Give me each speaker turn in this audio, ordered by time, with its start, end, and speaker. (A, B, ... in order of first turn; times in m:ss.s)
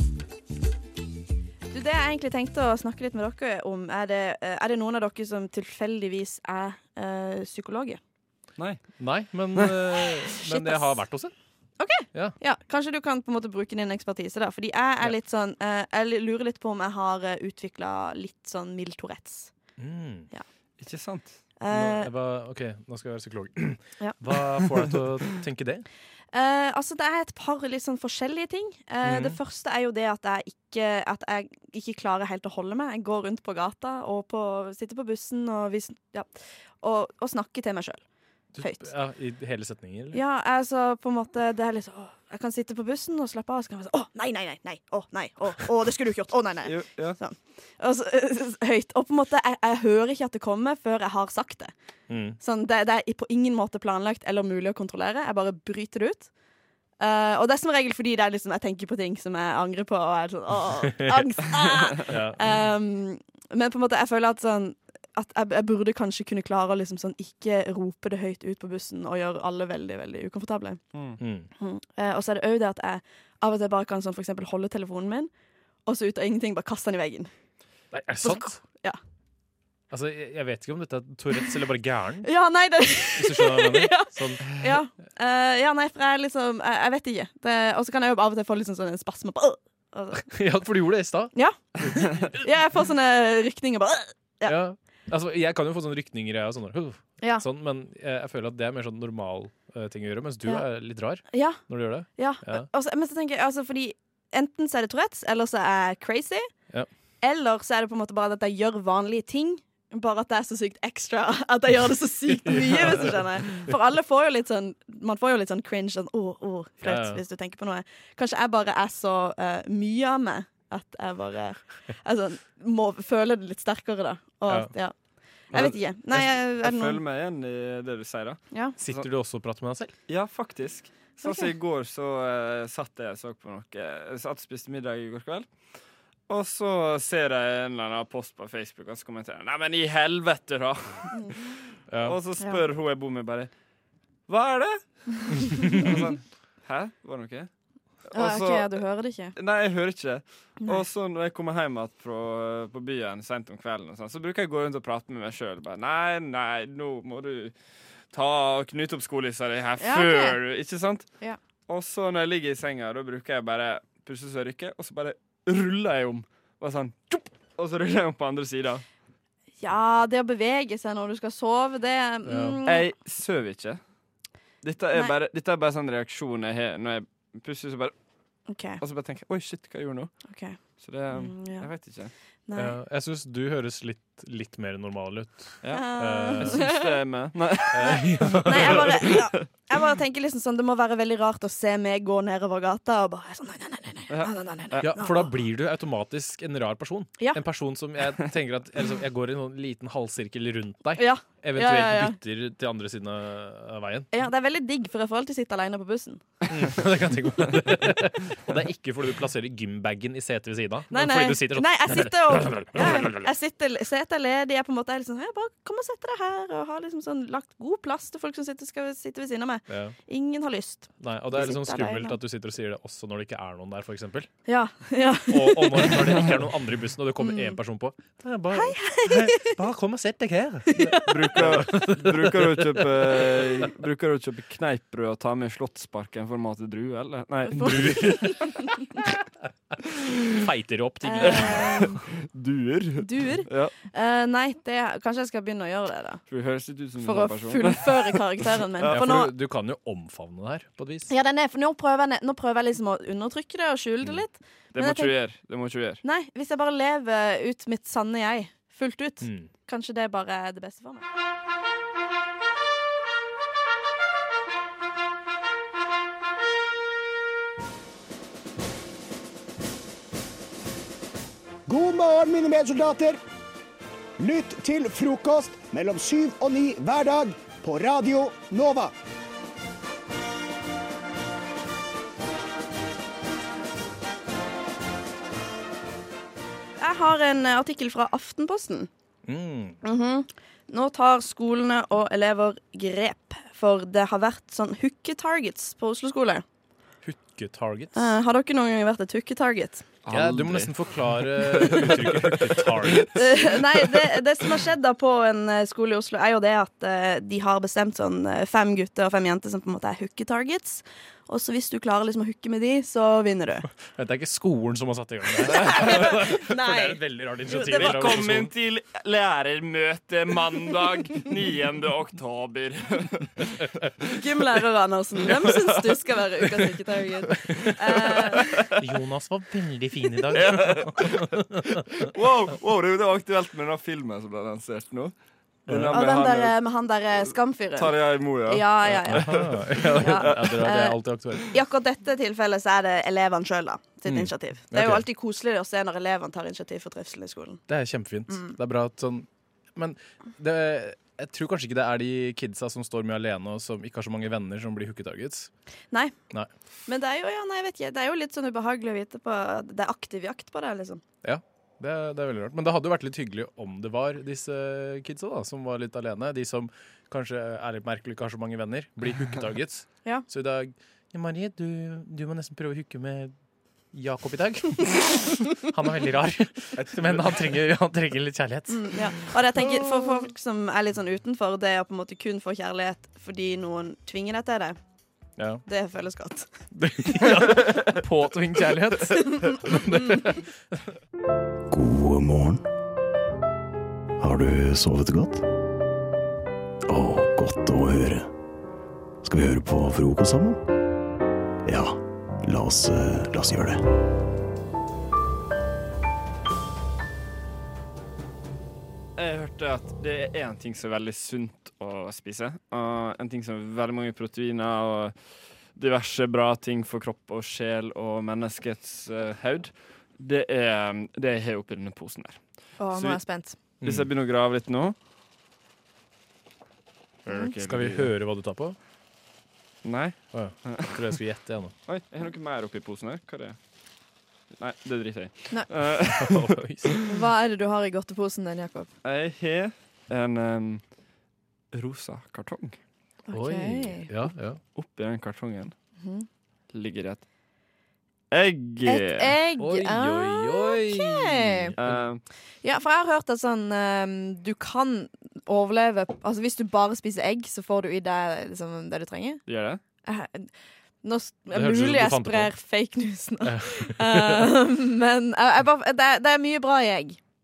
0:01.7-0:08.0 A
0:09.0-0:11.3 B
0:10.3-0:11.0 A
0:11.8-0:19.5 A
0:19.8-0:20.3 B
0:20.8-0:21.4 C
0:21.6-0:22.1 A
0:21.7-0:25.8 B
0:26.3-0:38.0 A
0:29.0-0:29.3 B
0:38.5-0:40.2 B
0:38.6-0:38.9 A
0:40.1-0:51.7 A
0:46.6-0:47.2 C
0:52.1-0:52.4 B
0:52.4-0:56.3 A
0:57.0-1:10.8 A
1:02.1-1:02.4 B
1:11.2-1:11.5 B
1:11.6-1:15.3 A
1:15.8-1:17.3 A
1:17.9-1:18.6 B
1:18.2-1:19.0 A
1:19.9-1:22.3 B
1:21.4-1:21.6 A
1:22.2-1:30.2 A
1:23.1-1:24.4 B
1:30.2-1:32.0 B
1:31.3-1:34.6 A
1:34.4-1:42.7 B
1:37.2-1:37.4 A
1:41.3-1:46.5 A
1:47.2-2:04.9 A
1:52.5-1:52.9 C
1:56.8-1:57.2 B
2:04.5-2:04.7 B
2:05.5-2:07.0 A
2:05.5-2:09.1 C
2:08.5-2:08.8 A
2:08.8-2:09.9 B
2:10.1-2:15.4 C
2:11.2-2:11.5 A
2:16.3-2:21.4 C
2:21.9-2:22.2 B
2:22.0-2:23.5 C
2:24.3-2:24.8 C
2:25.5-2:27.5 C
2:28.1-2:28.7 C
2:28.1-2:29.3 A
2:29.3-2:37.5 C
2:38.1-2:41.1 C
2:39.8-2:40.4 A
2:41.7-2:48.8 C
2:49.6-2:52.9 A
2:52.3-2:52.6 B
2:52.6-2:53.8 C
2:54.6-2:57.9 C
2:58.5-2:58.8 A
2:58.8-3:00.1 C
3:00.3-3:00.6 A
3:00.8-3:02.1 C
3:01.1-3:01.7 A
3:02.5-3:02.8 A
3:02.6-3:06.6 B
3:05.6-3:09.4 C
3:05.7-3:07.0 A
3:07.7-3:08.9 B
3:07.7-3:15.4 A
3:14.1-3:14.8 C
3:14.8-3:24.1 B
3:17.2-3:17.4 A
3:21.0-3:22.2 A
3:24.1-3:26.2 A
3:26.5-3:33.3 B
3:30.9-3:42.2 A
3:39.7-3:40.0 B
3:41.0-3:44.3 B
3:44.5-3:46.2 A
3:45.3-3:52.4 B
3:47.2-3:47.6 A
3:48.5-3:49.5 A
3:50.8-3:51.2 A
3:50.9-3:58.3 C
3:57.5-3:58.4 A
3:57.6-3:58.3 B
4:00.4-4:01.6 B
4:01.0-4:02.0 A
4:01.2-4:03.7 C
4:03.0-4:06.2 A
4:06.3-4:09.1 C
4:07.0-4:09.3 A
4:08.9-4:11.1 B
4:11.1-4:15.1 A
4:14.7-4:16.0 C
4:16.0-4:21.0 A
4:19.2-4:19.5 B
4:31.7-4:33.2 D
4:34.2-4:38.9 D
4:46.8-4:48.9 A
4:49.2-4:49.8 B
4:49.8-4:56.4 A
4:57.0-4:58.1 B
4:57.9-5:00.0 A
5:00.0-5:03.8 C
5:00.1-5:03.2 B
5:03.1-5:13.6 A
5:13.9-5:18.5 B
5:15.4-5:18.3 A
5:17.7-5:23.3 C
5:24.1-5:28.5 A
5:28.8-5:31.4 B
5:30.2-5:31.2 C
5:32.1-5:35.1 C
5:35.7-5:36.6 C
5:35.9-5:47.6 A
5:37.8-5:40.6 C
5:39.1-5:41.4 B
5:44.0-5:45.0 B
5:47.7-5:55.5 B
5:48.3-5:48.6 A
5:56.9-6:01.0 A
6:01.2-6:13.3 B
6:13.9-6:18.8 B
6:18.7-6:24.8 A
6:25.7-6:26.5 A
6:26.8-6:30.3 B
6:31.7-6:32.6 E
6:34.2-6:35.4 E
6:36.9-6:38.3 E
6:39.2-6:40.6 E
6:41.6-6:43.8 E
6:49.2-6:55.1 C
6:55.7-7:03.2 C
7:02.8-7:03.6 A
7:03.8-7:05.0 C
7:07.2-7:08.2 C
7:07.6-7:08.8 B
7:09.8-7:11.2 C
7:10.3-7:11.7 B
7:11.9-7:13.6 C
7:14.5-7:16.6 C
7:16.2-7:17.0 B
7:17.0-7:18.9 A
7:19.0-7:20.8 C
7:21.7-7:22.8 C
7:23.3-7:24.2 A
7:23.3-7:24.6 B
7:24.7-7:25.7 C
7:26.0-7:26.2 A
7:26.7-7:27.2 C
7:28.3-7:29.3 C
7:28.8-7:31.7 A
7:29.6-7:32.0 B
7:31.8-7:32.2 C
7:32.6-7:39.4 A
7:39.5-7:39.8 C
7:40.0-7:40.5 A
7:41.0-7:47.2 A
7:41.5-7:42.5 B
7:43.5-7:44.2 B